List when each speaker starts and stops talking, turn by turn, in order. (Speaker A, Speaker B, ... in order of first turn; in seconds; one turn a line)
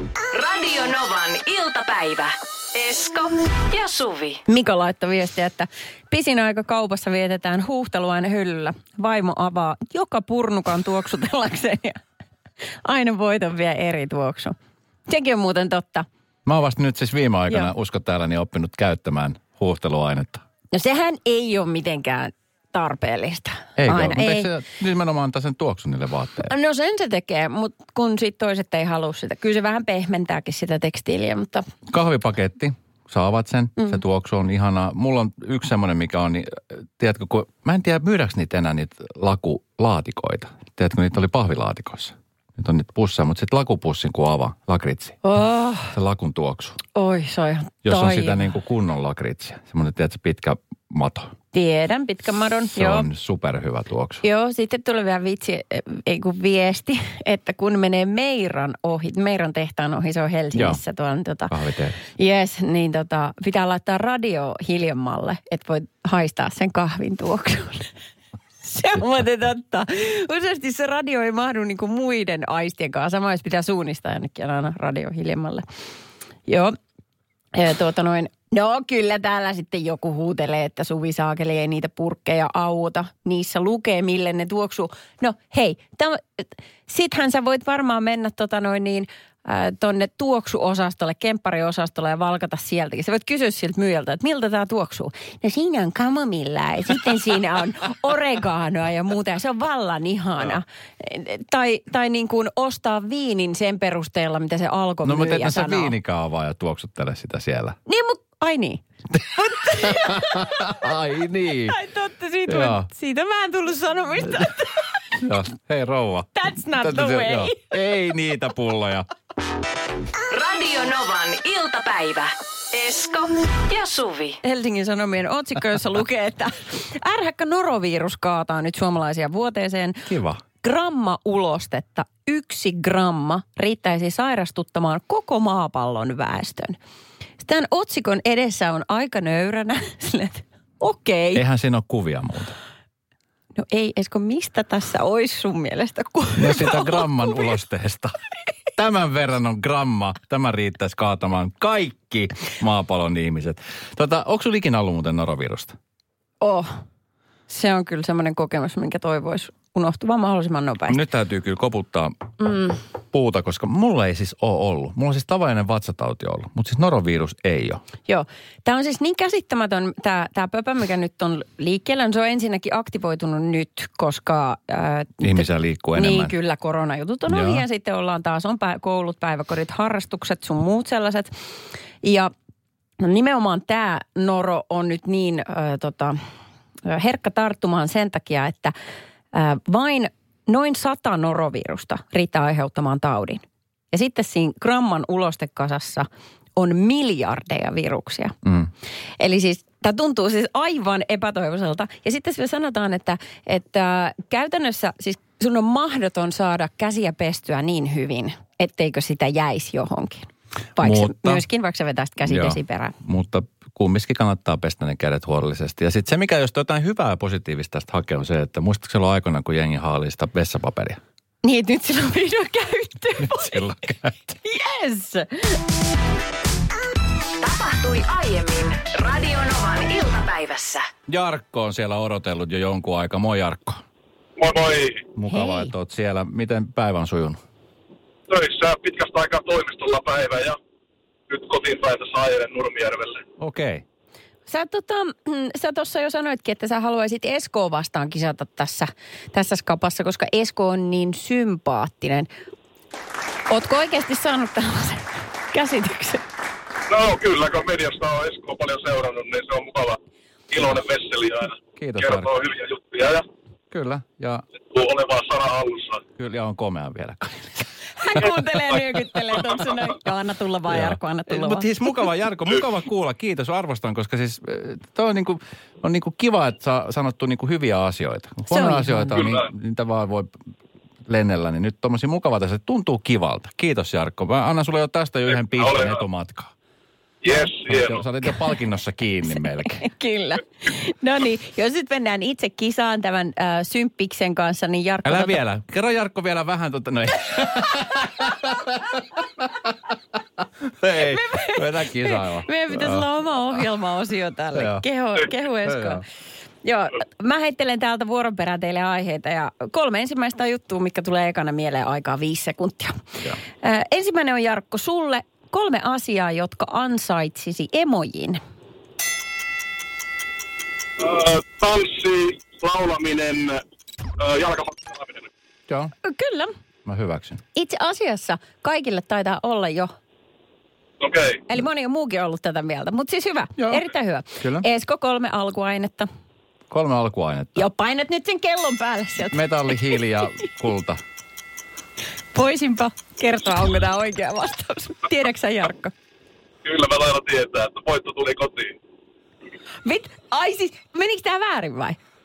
Speaker A: 0.3-4.4
Speaker B: 4.5-12.0
Speaker B: 12.8-14.6
Speaker B: 15.1-16.1
Speaker C: 16.4-20.4
Speaker B: 20.7-24.5
Speaker C: 23.8-26.5
Speaker B: 26.5-31.7
Speaker C: 31.9-45.2
Speaker B: 45.2-45.9
Speaker C: 45.9-46.8
Speaker B: 46.9-48.5
Speaker C: 47.8-51.3
Speaker B: 51.5-53.1
Speaker C: 52.7-54.2
Speaker B: 54.2-61.5
Speaker C: 60.5-60.8
Speaker C: 61.5-62.0
Speaker B: 62.1-67.9
Speaker B: 68.6-75.6
Speaker B: 76.5-76.8
Speaker B: 77.5-105.9
Speaker C: 105.0-107.8
Speaker B: 107.9-110.7
Speaker C: 109.6-111.8
Speaker B: 111.7-114.9
Speaker C: 112.5-112.9
Speaker C: 115.2-119.1
Speaker B: 116.3-117.7
Speaker A: 120.3-124.4
Speaker B: 124.4-130.1
Speaker C: 130.1-130.4
Speaker B: 130.6-136.8
Speaker B: 137.4-141.4
Speaker C: 141.3-142.6
Speaker B: 143.6-147.5
Speaker C: 146.4-148.2
Speaker C: 148.7-155.8
Speaker B: 156.4-156.8
Speaker B: 157.5-161.0
Speaker C: 160.9-162.3
Speaker B: 162.4-162.8
Speaker C: 163.1-167.8
Speaker B: 168.1-175.4
Speaker C: 175.2-176.3
Speaker B: 175.9-181.3
Speaker C: 177.3-177.6
Speaker B: 182.0-182.3
Speaker B: 183.0-186.2
Speaker B: 186.8-188.7
Speaker B: 189.3-198.4
Speaker B: 199.2-212.9
Speaker C: 210.8-211.4
Speaker C: 212.2-221.0
Speaker B: 221.4-223.7
Speaker C: 223.2-224.3
Speaker B: 224.3-225.6
Speaker A: 227.4-230.9
Speaker C: 231.1-233.8
Speaker D: 234.4-235.1
Speaker C: 235.2-237.4
Speaker B: 235.3-235.7
Speaker D: 238.3-240.6
Speaker D: 241.3-243.2
Speaker C: 243.4-243.8
Speaker B: 244.5-252.3
Speaker B: 253.5-256.2
Speaker D: 256.9-260.0
Speaker D: 260.5-263.2
Speaker C: 261.8-262.3
Speaker C: 263.7-264.4
Speaker D: 264.7-266.0
Speaker C: 266.1-268.2
Speaker B: 268.0-271.6
Speaker C: 270.7-280.4
Speaker B: 278.5-279.2
Speaker C: 281.0-286.5
Speaker D: 285.6-286.0
Speaker D: 287.2-288.0
Speaker C: 287.5-289.9
Speaker B: 289.3-295.4
Speaker C: 295.0-299.7
Speaker C: 300.6-303.1
Speaker B: 300.9-306.0
Speaker C: 304.5-304.8
Speaker C: 305.6-306.0
Speaker B: 306.6-318.4
Speaker D: 321.0-323.6
Speaker D: 324.2-325.3
Speaker C: 325.7-325.9
Speaker B: 326.0-326.5
Speaker C: 326.8-327.4
Speaker B: 327.5-329.9
Speaker D: 331.0-331.4
Speaker B: 331.5-336.1
Speaker C: 334.4-334.6
Speaker C: 336.7-337.6
Speaker B: 337.6-339.8
Speaker C: 339.3-341.0
Speaker B: 342.3-345.9
Speaker D: 346.6-348.8
Speaker B: 349.8-352.0